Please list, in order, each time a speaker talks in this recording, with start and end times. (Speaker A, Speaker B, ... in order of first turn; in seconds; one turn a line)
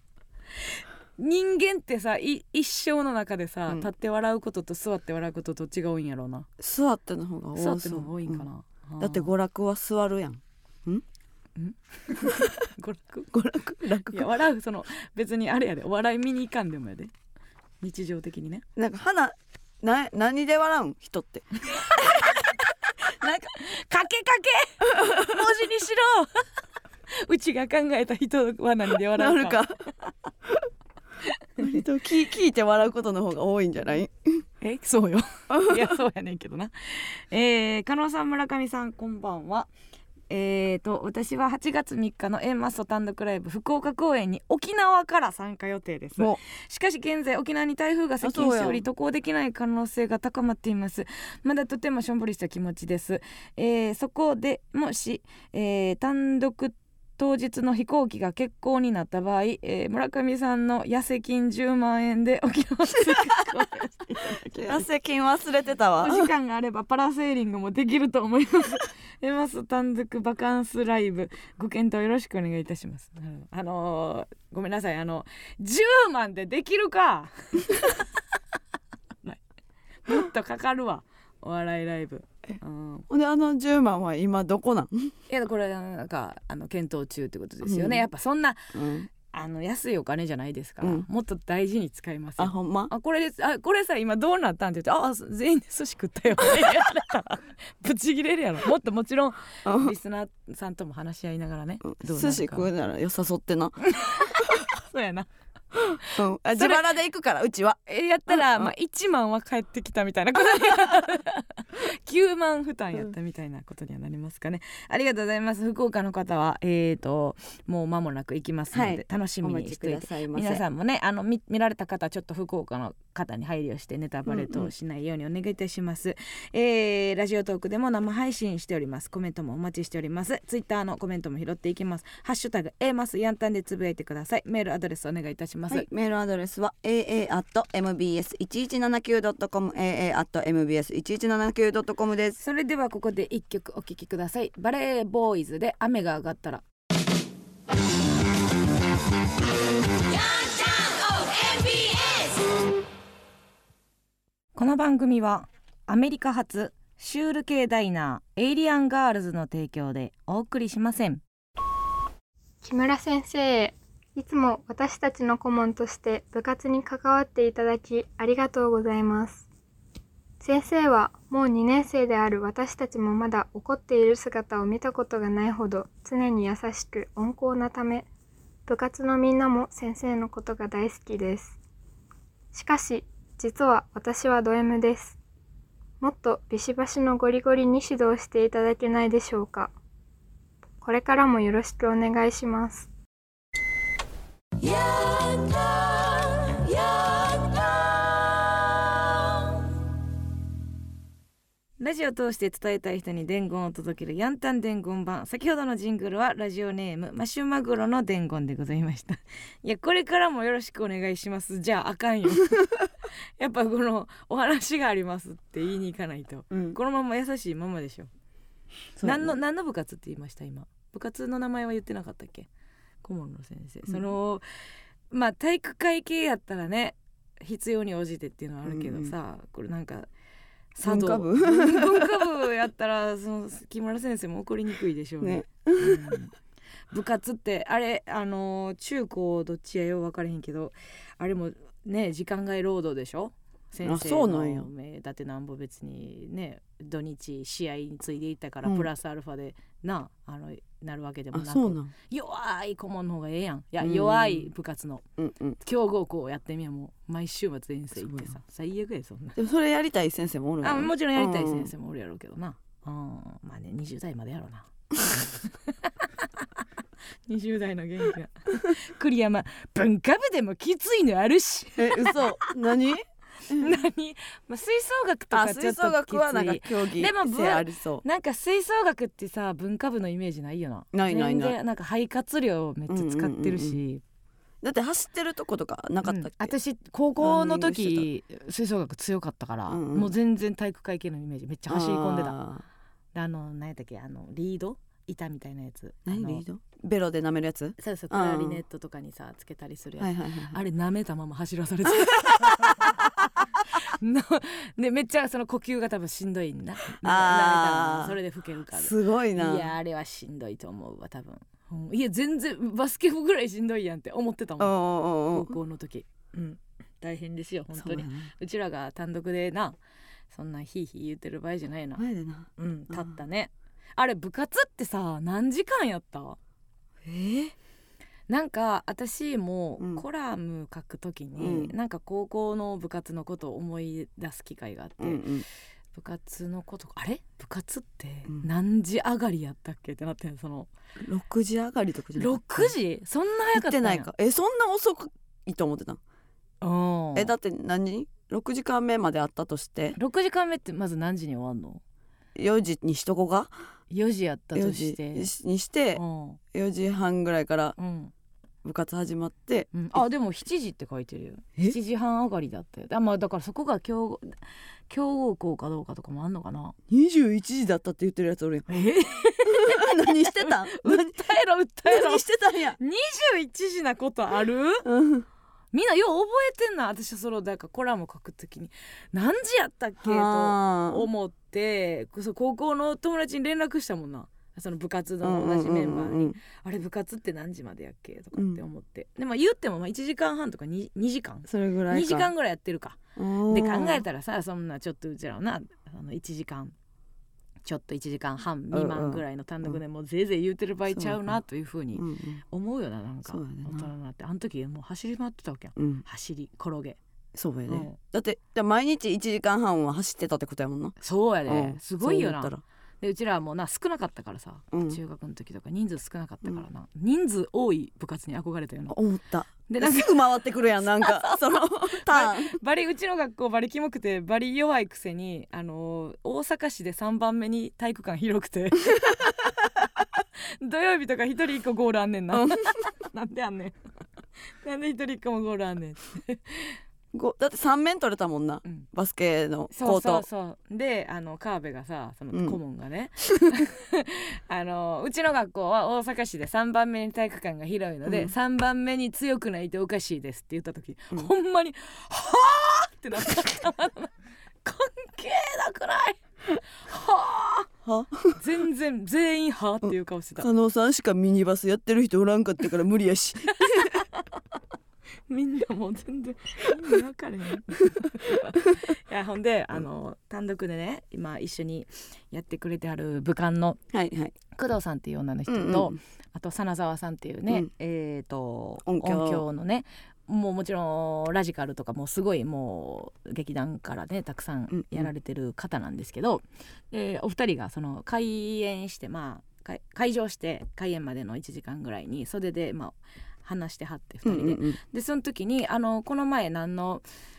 Speaker A: 0.6-6.5
Speaker B: 6.6-8.4
Speaker A: 7.5-9.3
Speaker B: 9.0-11.0
Speaker A: 11.6-13.3
Speaker B: 13.3-14.3
Speaker A: 14.1-17.1
Speaker A: 17.8-18.6
Speaker B: 18.8-22.3
Speaker A: 21.7-22.9
Speaker B: 23.2-23.5
Speaker A: 23.5-26.5
Speaker B: 24.9-25.3
Speaker A: 27.1-29.6
Speaker B: 29.1-29.8
Speaker B: 31.6-34.4
Speaker A: 34.6-39.7
Speaker A: 40.3-64.8
Speaker B: 48.2-48.8
Speaker B: 64.2-66.3
Speaker A: 66.0-78.1
Speaker A: 80.0-83.1
Speaker B: 83.1-85.1
Speaker A: 85.3-102.7
Speaker B: 87.6-88.0
Speaker B: 88.7-89.1
Speaker B: 90.8-91.0
Speaker B: 92.4-92.9
Speaker B: 99.6-99.9
Speaker B: 101.8-103.8
Speaker A: 103.8-105.3
Speaker B: 105.8-108.7
Speaker A: 106.5-106.8
Speaker A: 107.9-135.9
Speaker B: 118.7-120.6
Speaker B: 124.3-124.7
Speaker B: 135.7-142.4
Speaker A: 142.4-146.6
Speaker A: 150.5-152.2
Speaker A: 154.5-161.2
Speaker C: 162.6-169.5
Speaker C: 170.4-178.1
Speaker C: 178.7-181.6
Speaker C: 182.5-185.2
Speaker C: 186.0-189.7
Speaker C: 190.8-192.9
Speaker A: 194.6-198.8
Speaker A: 201.8-212.6
Speaker A: 213.4-218.1
Speaker B: 216.5-216.8
Speaker B: 219.0-219.3
Speaker A: 219.0-222.5
Speaker A: 223.0-224.4
Speaker A: 225.1-230.1
Speaker B: 228.7-229.1
Speaker A: 230.7-236.3
Speaker B: 230.8-232.3
Speaker B: 235.2-236.1
Speaker A: 236.9-255.0
Speaker B: 243.8-244.7
Speaker B: 248.6-248.9
Speaker B: 251.3-251.9
Speaker B: 253.8-254.5
Speaker B: 255.2-255.6
Speaker A: 255.6-259.4
Speaker B: 258.0-258.4
Speaker B: 259.4-261.7
Speaker A: 260.6-266.6
Speaker A: 267.3-272.5
Speaker B: 271.8-273.7
Speaker A: 273.5-284.0
Speaker B: 275.3-278.0
Speaker B: 280.9-281.6
Speaker B: 282.9-283.8
Speaker B: 284.6-286.5
Speaker A: 286.0-292.4
Speaker B: 287.2-288.1
Speaker B: 289.7-290.1
Speaker B: 291.7-292.6
Speaker A: 293.1-296.4
Speaker B: 296.1-298.6
Speaker A: 297.8-314.7
Speaker B: 300.0-300.6
Speaker B: 302.0-302.7
Speaker B: 307.0-308.1
Speaker B: 308.7-309.7
Speaker B: 314.6-315.5
Speaker A: 315.3-319.8
Speaker B: 317.7-318.3
Speaker A: 320.3-322.0
Speaker B: 322.0-323.1
Speaker A: 322.6-326.4
Speaker B: 327.0-327.5
Speaker A: 328.3-335.3
Speaker B: 331.4-331.7
Speaker B: 335.0-335.4
Speaker A: 335.9-340.7
Speaker B: 341.0-342.7
Speaker A: 342.2-344.1
Speaker B: 343.5-346.0
Speaker A: 346.6-347.3
Speaker B: 347.1-350.0
Speaker A: 349.9-351.8
Speaker B: 352.4-353.5
Speaker A: 353.9-355.3
Speaker B: 354.5-356.0
Speaker A: 355.9-356.4
Speaker B: 356.5-357.8
Speaker A: 357.8-358.1
Speaker B: 358.6-359.7
Speaker A: 359.7-366.7
Speaker B: 366.9-368.8
Speaker A: 368.7-372.2
Speaker B: 369.4-371.2
Speaker B: 371.9-372.8
Speaker A: 372.8-374.8
Speaker B: 374.8-375.2
Speaker A: 375.7-396.7
Speaker B: 380.0-381.1
Speaker B: 385.2-386.4
Speaker B: 391.5-392.3
Speaker B: 393.1-394.0
Speaker A: 397.6-407.0
Speaker B: 398.7-399.8
Speaker B: 400.9-401.4
Speaker B: 401.9-402.4
Speaker B: 403.2-403.9
Speaker B: 405.8-406.0
Speaker B: 407.3-411.0
Speaker A: 407.7-407.9
Speaker A: 411.0-418.9
Speaker B: 411.5-412.6
Speaker B: 414.7-415.0
Speaker B: 418.9-422.6
Speaker A: 419.7-429.4
Speaker A: 430.4-433.8
Speaker B: 432.3-432.8
Speaker A: 434.6-436.8
Speaker B: 437.1-440.2
Speaker A: 439.7-454.1
Speaker B: 448.1-448.3
Speaker A: 454.6-456.2
Speaker A: 456.8-457.7
Speaker B: 457.8-458.4
Speaker A: 458.4-460.5
Speaker B: 460.4-464.0
Speaker A: 463.6-464.2
Speaker A: 465.3-473.8
Speaker B: 473.9-474.3
Speaker A: 474.5-497.0
Speaker B: 475.5-476.0
Speaker B: 478.8-479.4
Speaker B: 484.7-485.1
Speaker B: 494.2-494.8